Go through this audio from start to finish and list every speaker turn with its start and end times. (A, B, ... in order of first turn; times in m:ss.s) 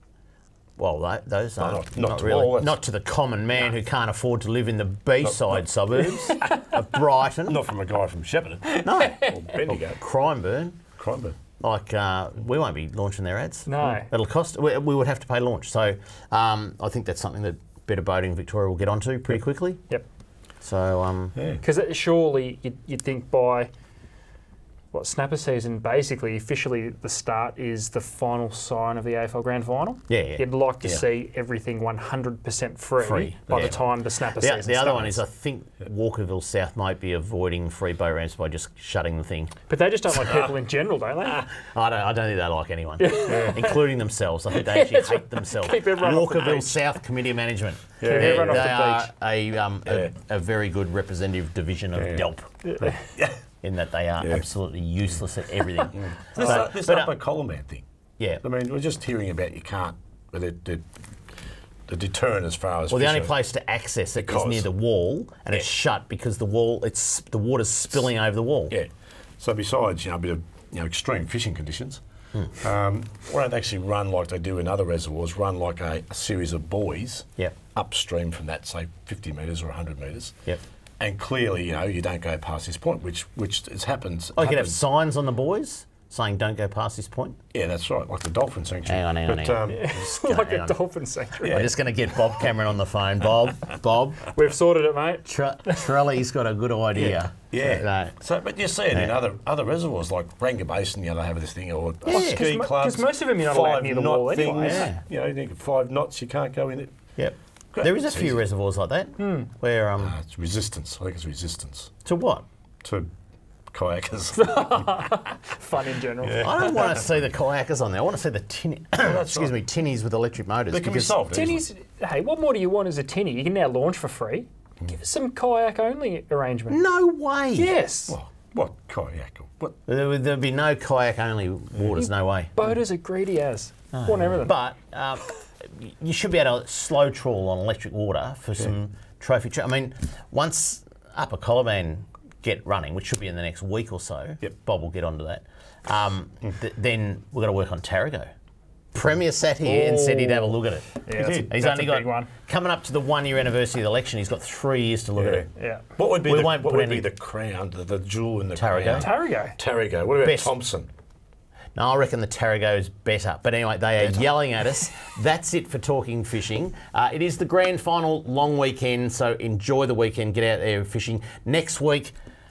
0:00.8-0:07.6 A
0:01.6-0:02.8 B
0:05.2-0:05.6 B
0:07.5-0:10.0 B
0:08.8-0:10.8 A
0:08.8-0:09.2 C
0:11.0-0:11.4 B
0:11.6-0:19.8 A
0:13.6-0:14.1 C
0:20.6-0:21.4 A
0:21.4-0:21.6 B
0:21.6-0:23.7 C
0:24.9-0:35.2 C
0:30.1-0:30.4 A
0:33.0-0:39.5 A
0:33.5-0:33.8 B
0:39.7-0:41.4 C
0:41.4-0:52.5 A
0:43.0-0:43.8 C
0:43.3-0:43.7 B
0:44.5-0:46.8 C
0:48.0-0:48.7 B
0:48.0-0:49.1 C
0:52.0-0:52.3 B
0:52.6-0:52.9 C
0:52.8-0:53.4 B
0:53.6-0:57.2 A
0:54.2-0:54.4 B
0:55.9-0:57.8 B
0:58.4-1:00.9 B
1:01.9-1:03.3 B
1:02.9-1:08.8 A
1:04.2-1:04.7 B
1:08.7-1:12.0 B
1:12.6-1:20.4 B
1:21.0-1:24.8 B
1:24.3-1:27.4 A
1:27.5-1:30.0 B
1:28.8-1:30.8 A
1:29.7-1:31.6 C
1:31.4-1:31.7 B
1:31.4-1:34.3 A
1:34.3-1:35.8 C
1:35.2-1:38.2 A
1:36.9-1:47.0 B
1:38.9-1:39.2 A
1:42.1-1:42.4 A
1:42.1-1:44.9 C
1:44.6-1:45.0 A
1:47.2-1:50.1 A
1:47.7-1:48.4 B
1:49.2-1:49.5 C
1:50.0-1:51.9 B
1:52.0-1:52.4 A
1:52.8-1:53.1 B
1:53.7-1:55.0 B
1:54.4-1:57.0 C
1:56.2-1:57.0 B
1:56.4-2:01.2 A
1:59.0-1:59.5 B
2:00.7-2:01.6 B
2:01.3-2:06.8 C
2:06.7-2:07.7 A
2:07.5-2:08.2 C
2:08.1-2:09.8 B
2:09.9-2:12.5 A
2:12.0-2:14.6 C
2:13.9-2:28.3 A
2:28.9-2:35.5 A
2:29.7-2:32.3 C
2:31.1-2:31.5 B
2:35.2-2:40.9 B
2:35.5-2:35.8 C
2:36.2-2:37.1 A
2:38.5-2:39.1 A
2:38.9-2:39.5 C
2:40.2-2:40.5 A
2:41.7-2:52.2 A